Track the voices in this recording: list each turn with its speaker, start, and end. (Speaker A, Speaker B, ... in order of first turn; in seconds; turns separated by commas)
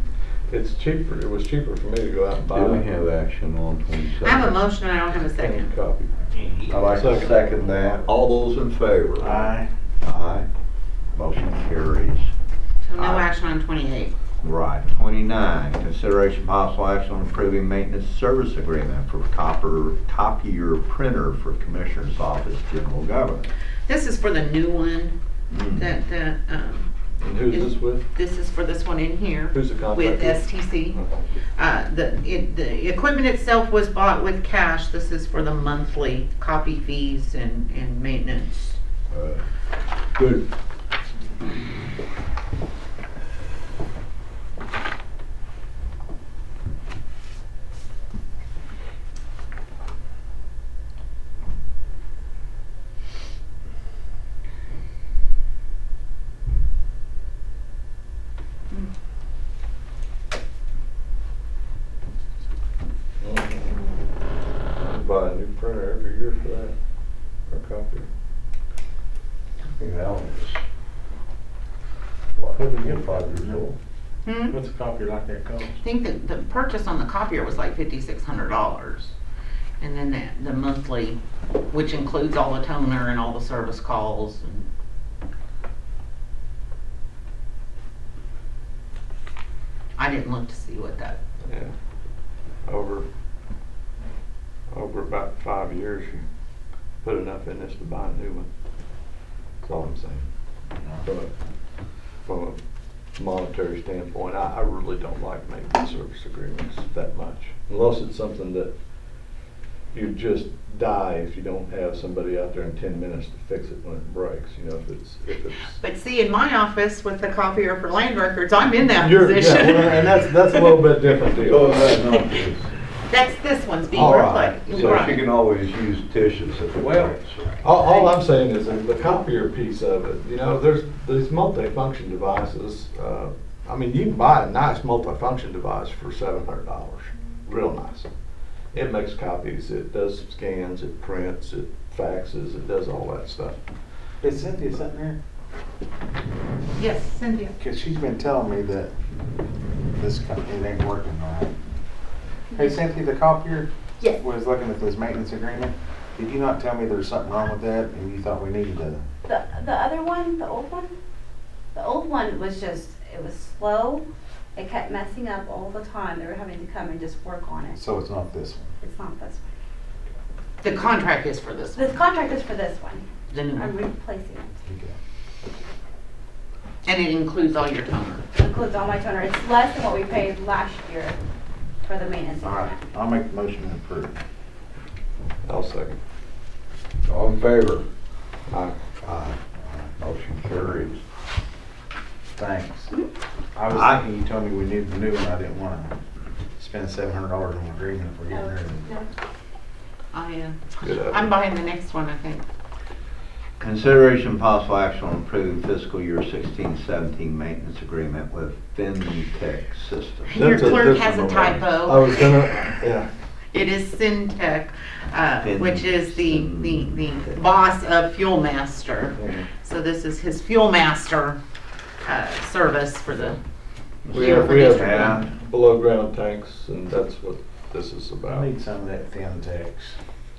Speaker A: 0.5-2.9, Speaker B: 2.5-4.6, Speaker C: 4.2-5.7, Speaker A: 5.3-8.0, Speaker B: 6.7-10.4, Speaker D: 9.2-9.7, Speaker B: 11.1-12.3, Speaker C: 12.8-14.1, Speaker B: 13.0-13.3, Speaker B: 14.4-23.5, Speaker C: 23.9-25.1, Speaker B: 25.5-25.9, Speaker C: 25.7-26.9, Speaker A: 27.2-28.1, Speaker C: 27.5-31.0, Speaker A: 29.5-31.2, Speaker C: 31.6-38.8, Speaker B: 39.1-39.4, Speaker A: 63.2-63.8, Speaker A: 64.8-66.7, Speaker A: 67.5-68.1, Speaker B: 69.8-70.6, Speaker B: 72.4-73.4, Speaker D: 72.6-73.6, Speaker C: 74.2-74.6, Speaker D: 74.5-75.7, Speaker C: 75.8-79.1, Speaker C: 79.8-81.2, Speaker C: 81.7-84.7, Speaker C: 90.0-91.2, Speaker A: 91.4-91.7, Speaker A: 92.7-93.0, Speaker A: 94.7-96.2, Speaker A: 97.0-98.5, Speaker A: 99.6-100.3, Speaker A: 101.0-101.3, Speaker A: 102.2-102.6, Speaker A: 103.2-108.7, Speaker A: 109.9-115.7, Speaker C: 115.8-120.6, Speaker A: 119.0-122.0, Speaker B: 121.4-122.7, Speaker C: 123.1-125.2, Speaker B: 123.9-127.6, Speaker A: 124.0-125.1, Speaker A: 127.6-138.1, Speaker A: 138.7-143.6, Speaker D: 144.2-145.2, Speaker C: 146.8-147.6, Speaker D: 147.6-148.9, Speaker D: 150.0-151.5, Speaker D: 152.5-159.0, Speaker E: 159.2-160.9, Speaker E: 161.7-164.0, Speaker E: 164.5-167.8, Speaker D: 167.7-168.8, Speaker E: 168.8-169.4, Speaker C: 170.6-172.0, Speaker E: 171.8-174.5, Speaker C: 173.3-173.7, Speaker D: 174.6-174.9, Speaker C: 176.8-178.2, Speaker E: 178.3-181.2, Speaker E: 181.8-182.8, Speaker D: 182.8-184.2, Speaker A: 185.4-186.0, Speaker B: 187.0-187.8, Speaker A: 188.5-188.8, Speaker B: 189.0-189.4, Speaker B: 190.0-191.0, Speaker D: 192.3-192.9, Speaker D: 193.5-195.9, Speaker B: 193.7-194.0, Speaker D: 196.6-198.8, Speaker C: 200.1-202.4, Speaker A: 200.8-201.3, Speaker B: 203.6-210.4, Speaker C: 210.3-212.3, Speaker A: 210.3-213.1, Speaker C: 213.5-221.4, Speaker B: 215.4-217.4, Speaker A: 219.2-219.5, Speaker C: 222.0-223.4, Speaker B: 224.1-225.2, Speaker A: 224.1-228.5, Speaker C: 224.1-225.2, Speaker D: 228.2-229.9